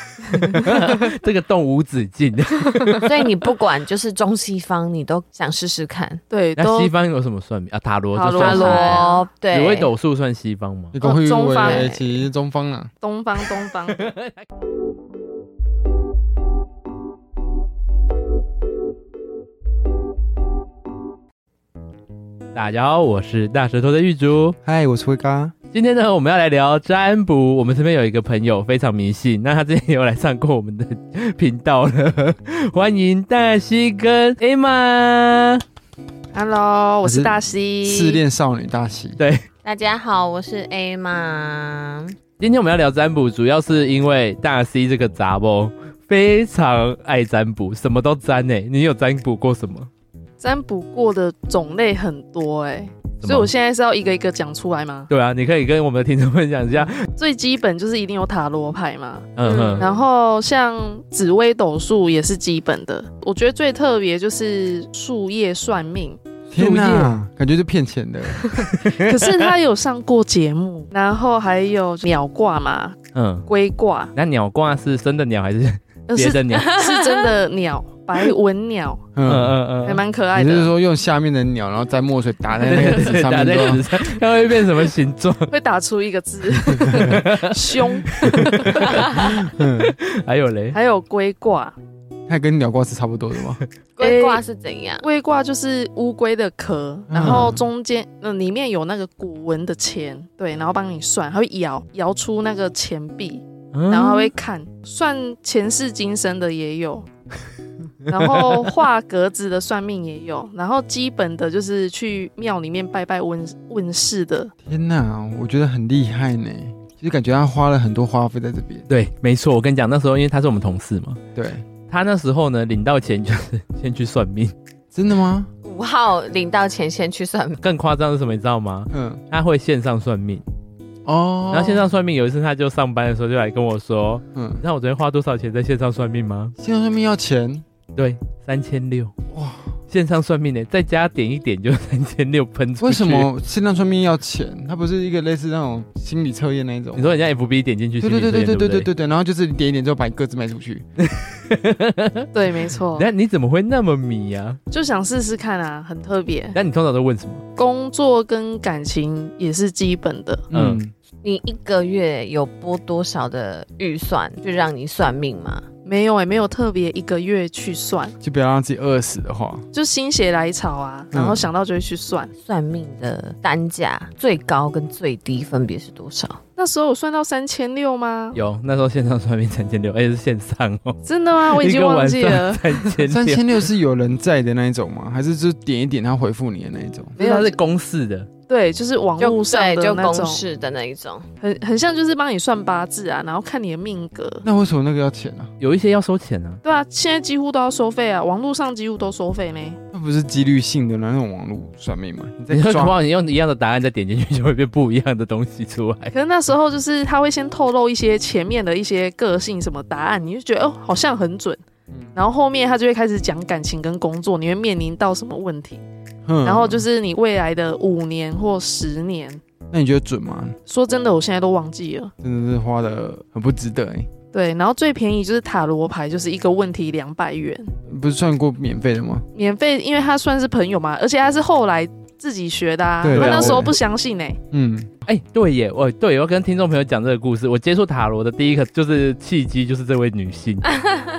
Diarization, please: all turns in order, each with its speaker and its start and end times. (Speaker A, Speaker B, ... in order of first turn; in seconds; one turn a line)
Speaker A: 0.2-1.1
Speaker B: 0.5-3.1
Speaker A: 2.8-3.0
Speaker C: 3.0-6.2
Speaker A: 6.3-6.9
Speaker B: 6.6-10.9
Speaker A: 8.1-9.2
Speaker C: 8.3-9.9
Speaker D: 10.9-12.9
Speaker A: 11.0-12.0
Speaker C: 11.6-11.9
Speaker A: 13.0-14.1
Speaker B: 14.0-14.3
Speaker B: 22.5-24.6
Speaker D: 24.6-25.5
Speaker B: 25.7-35.6
Speaker A: 36.3-38.2
Speaker D: 37.0-39.2
Speaker B: 39.2-39.4
Speaker C: 39.6-42.1
Speaker B: 42.4-49.9
Speaker A: 50.4-55.1
Speaker B: 53.2-53.5
Speaker B: 55.1-57.1
Speaker A: 57.1-67.1
Speaker B: 59.4-59.9
Speaker D: 66.5-68.7
Speaker A: 68.5-73.0
Speaker B: 68.9-69.3
Speaker B: 73.1-73.5
Speaker A: 73.5-74.1
Speaker B: 74.1-76.8
Speaker A: 76.1-79.1
Speaker C: 76.8-77.3
Speaker D: 79.1-79.6
Speaker B: 79.2-80.0
Speaker A: 79.8-80.7
Speaker D: 80.3-84.0
Speaker B: 82.6-85.5
Speaker A: 85.5-89.3
Speaker D: 86.7-87.2
Speaker B: 86.8-90.8
Speaker D: 89.2-89.9
Speaker A: 90.7-91.8
Speaker D: 92.3-93.6
Speaker C: 94.0-95.0
Speaker A: 94.0-94.4
Speaker A: 95.0-107.0
Speaker D: 97.1-97.6
Speaker B: 97.2-97.5
Speaker B: 103.7-104.3
Speaker A: 108.1-114.5
Speaker B: 108.1-108.6
Speaker D: 114.6-118.9
Speaker B: 118.9-121.2
Speaker D: 121.3-121.6
Speaker B: 121.9-124.5
Speaker D: 124.9-125.5
Speaker C: 125.6-127.6
Speaker B: 127.6-130.4
Speaker D: 128.9-129.2
Speaker D: 131.0-131.9
Speaker B: 131.5-136.5
Speaker D: 134.3-134.6
Speaker D: 136.6-137.6
Speaker B: 137.9-139.1
Speaker D: 139.3-139.7
Speaker B: 139.9-143.3
Speaker D: 142.8-147.1
Speaker B: 146.9-148.9
Speaker D: 148.0-150.8
Speaker B: 151.0-152.3
Speaker A: 152.3-153.1
Speaker B: 152.9-154.6
Speaker A: 154.7-156.6
Speaker B: 156.5-157.4
Speaker A: 157.6-160.4
Speaker D: 160.5-160.9
Speaker B: 160.5-160.8
Speaker C: 161.2-165.6
Speaker A: 165.8-168.1
Speaker D: 168.2-169.6
Speaker A: 169.7-172.3
Speaker D: 171.1-171.5
Speaker C: 172.4-176.4
Speaker A: 176.6-178.4
Speaker B: 178.3-183.4
Speaker A: 181.0-182.8
Speaker D: 183.0-187.2
Speaker B: 187.2-188.3
Speaker A: 187.2-187.6
Speaker A: 188.5-190.4
Speaker C: 189.2-191.3
Speaker A: 191.4-194.4
Speaker D: 194.4-195.5
Speaker B: 195.6-196.6
Speaker A: 196.6-199.8
Speaker D: 199.9-202.9
Speaker B: 202.5-206.1
Speaker A: 206.1-211.6
Speaker D: 211.9-212.2
Speaker A: 212.1-215.8
Speaker D: 216.2-216.8
Speaker A: 216.4-219.4
Speaker D: 219.7-220.6
Speaker A: 220.7-222.1
Speaker D: 222.2-224.1
Speaker A: 224.3-227.7
Speaker D: 227.9-229.2
Speaker A: 229.3-234.4
Speaker D: 233.0-233.8
Speaker B: 233.1-233.7
Speaker D: 234.5-234.9
Speaker B: 235.1-240.8